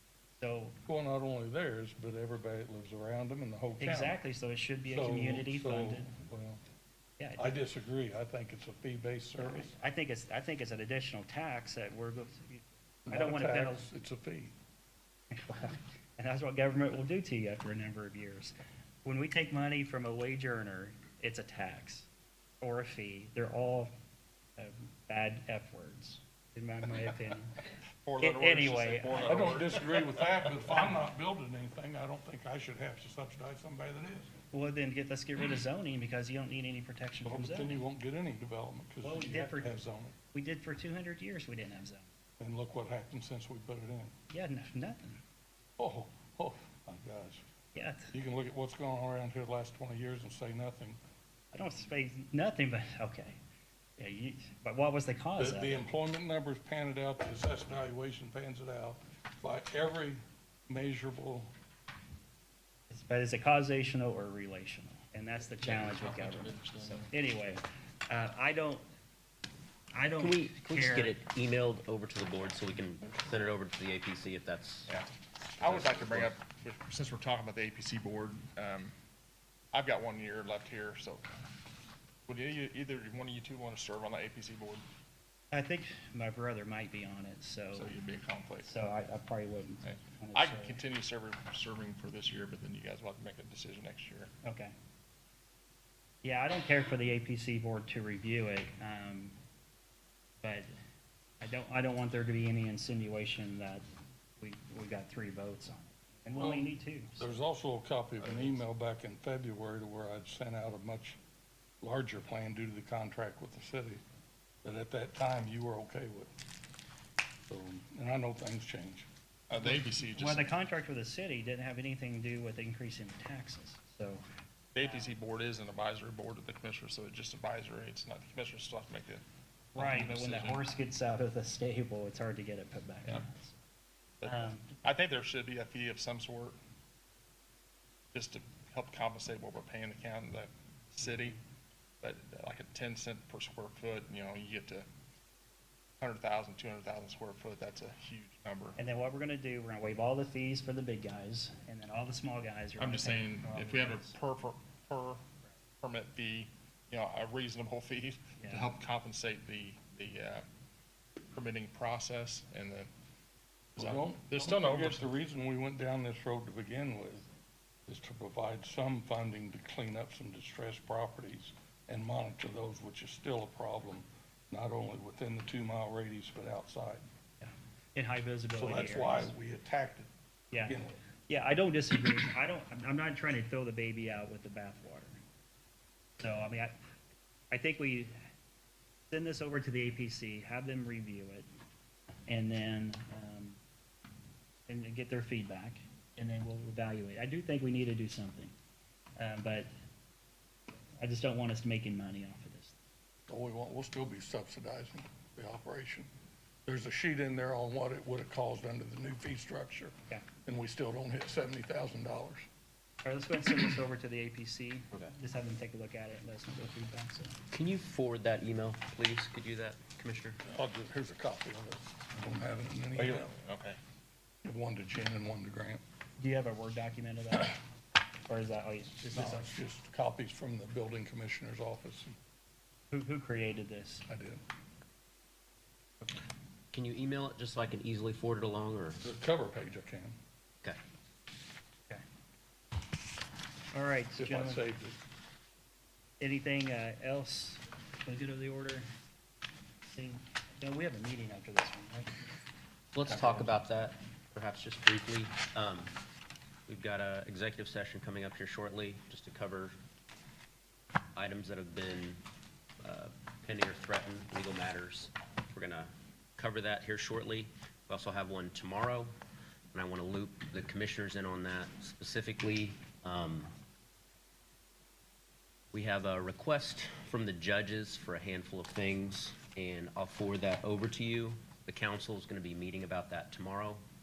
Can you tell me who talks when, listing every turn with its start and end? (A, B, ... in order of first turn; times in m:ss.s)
0:00.4-0:00.7 A
0:00.8-0:04.2 B
0:03.8-0:06.1 A
0:04.9-0:06.6 B
0:07.2-0:07.5 A
0:07.4-0:09.8 B
0:09.4-0:13.8 A
0:13.0-0:14.5 B
0:15.3-0:22.1 A
0:22.6-0:23.9 A
0:24.6-0:29.6 A
0:28.0-0:30.1 C
0:29.2-0:34.3 B
0:34.5-0:37.8 A
0:37.2-0:40.2 B
0:39.0-0:39.8 A
0:40.3-0:42.1 A
0:42.4-0:44.1 B
0:44.3-0:45.2 A
0:45.8-0:47.4 B
0:47.7-0:48.1 A
0:48.1-0:51.0 B
0:51.5-0:53.4 A
0:54.0-0:55.8 A
0:55.4-1:01.5 B
1:02.9-1:08.8 A
1:05.6-1:06.7 D
1:06.0-1:06.9 C
1:09.9-1:11.2 A
1:10.2-1:14.9 D
1:14.9-1:18.9 C
1:15.6-1:16.3 D
1:19.7-1:21.2 C
1:22.3-1:24.8 C
1:25.5-1:27.9 A
1:27.7-1:28.7 C
1:28.6-1:30.8 A
1:29.8-1:34.3 C
1:34.4-1:34.7 A
1:36.2-1:39.3 A
1:40.4-1:40.7 A
1:41.4-1:43.8 A
1:44.4-1:47.2 A
1:46.4-1:51.2 B
1:51.8-1:54.0 B
1:54.6-1:56.3 B
1:57.5-1:59.1 B
1:59.5-2:00.5 C
1:59.6-2:04.2 A
2:04.7-2:09.2 C
2:04.8-2:05.2 A
2:09.7-2:10.6 C
2:09.8-2:13.5 A
2:14.2-2:16.6 C
2:14.2-2:14.8 A
2:18.1-2:21.4 C
2:22.0-2:24.8 C
2:26.0-2:28.8 C
2:28.8-2:34.2 A
2:32.8-2:35.2 C
2:35.8-2:40.4 C
2:38.4-2:38.7 A
2:41.3-2:42.9 C
2:43.8-2:45.1 C
2:43.8-2:47.3 B
2:47.9-2:57.0 B
2:57.4-2:59.3 A
2:58.6-3:00.1 B
3:00.5-3:05.2 A
3:00.6-3:01.0 B
3:06.2-3:06.8 A
3:07.5-3:08.2 A
3:09.1-3:11.5 A
3:12.3-3:13.6 A
3:14.7-3:18.5 A
3:19.2-3:19.7 A
3:21.0-3:22.8 A
3:23.3-3:26.1 B
3:26.6-3:29.9 B
3:30.4-3:32.5 B
3:33.0-3:37.4 A
3:37.5-3:40.4 D
3:40.4-3:43.3 B
3:43.0-3:43.8 C
3:44.4-3:45.8 B
3:46.2-3:47.6 A
3:48.2-3:49.5 A
3:49.0-3:52.2 B
3:52.9-3:54.0 A
3:54.1-3:54.4 B
3:56.7-3:59.0 D
3:59.0-4:00.2 B
4:03.7-4:04.6 A
4:04.2-4:05.0 B
4:06.2-4:08.9 A
4:09.9-4:12.1 A
4:12.9-4:15.9 D
4:16.7-4:19.8 D
4:21.1-4:22.2 D
4:22.8-4:29.1 D
4:29.7-4:33.5 D
4:35.7-4:43.8 D